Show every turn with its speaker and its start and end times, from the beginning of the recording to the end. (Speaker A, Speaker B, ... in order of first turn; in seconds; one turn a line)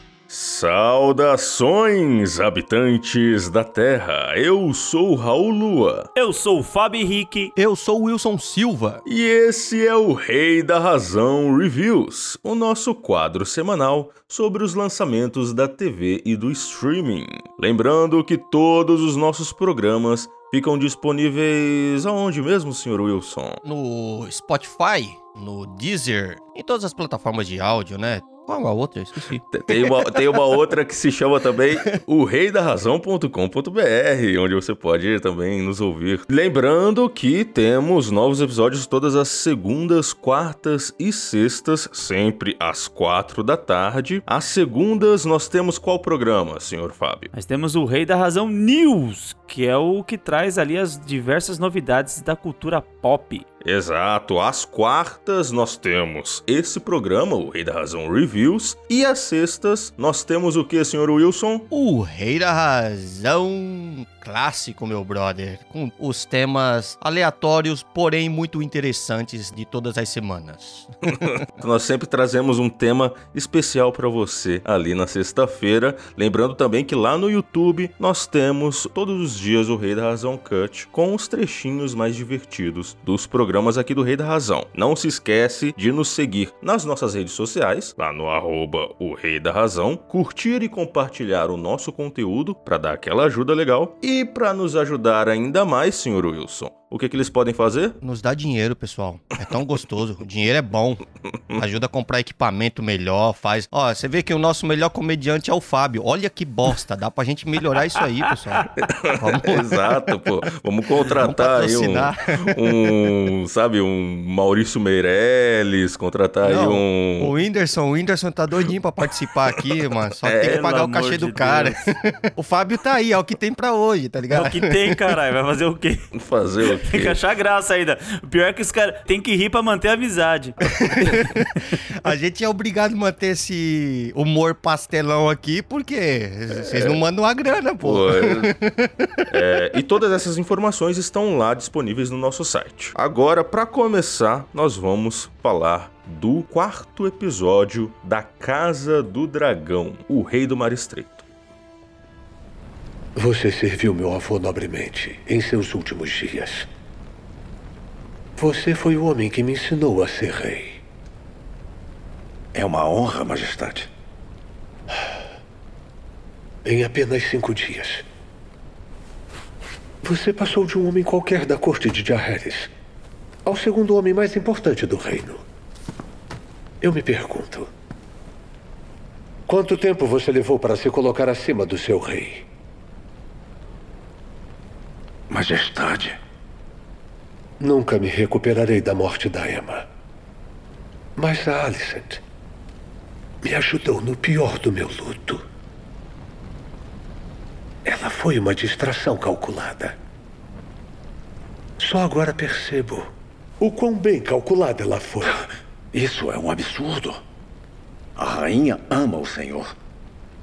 Speaker A: 0.3-6.1
Speaker B: 6.1-7.5
Speaker C: 7.5-9.0
Speaker A: 9.0-23.6
Speaker C: 23.6-30.0
Speaker A: 29.5-47.3
Speaker B: 47.3-53.4
Speaker A: 53.6-61.6
Speaker C: 61.7-71.2
Speaker A: 71.2-98.0
Speaker C: 98.0-101.0
Speaker C: 101.5-110.0
Speaker A: 108.8-117.3
Speaker C: 111.0-113.0
Speaker C: 116.4-125.0
Speaker A: 120.2-120.7
Speaker B: 120.4-121.8
Speaker B: 124.3-126.1
Speaker A: 126.1-127.2
Speaker B: 126.8-131.2
Speaker C: 130.7-139.3
Speaker A: 136.5-137.0
Speaker A: 137.8-138.5
Speaker A: 139.3-151.2
Speaker D: 153.2-156.7
Speaker D: 158.4-160.8
Speaker E: 162.5-163.9
Speaker D: 166.6-168.0
Speaker D: 170.0-172.7
Speaker D: 173.4-175.4
Speaker D: 176.8-177.7
Speaker D: 179.5-182.4
Speaker E: 185.3-186.2
Speaker D: 187.6-189.8
Speaker D: 191.2-192.2
Speaker D: 193.4-195.4
Speaker D: 197.8-199.9
Speaker D: 201.8-203.1
Speaker D: 203.6-205.4
Speaker E: 205.9-207.2
Speaker E: 208.2-209.7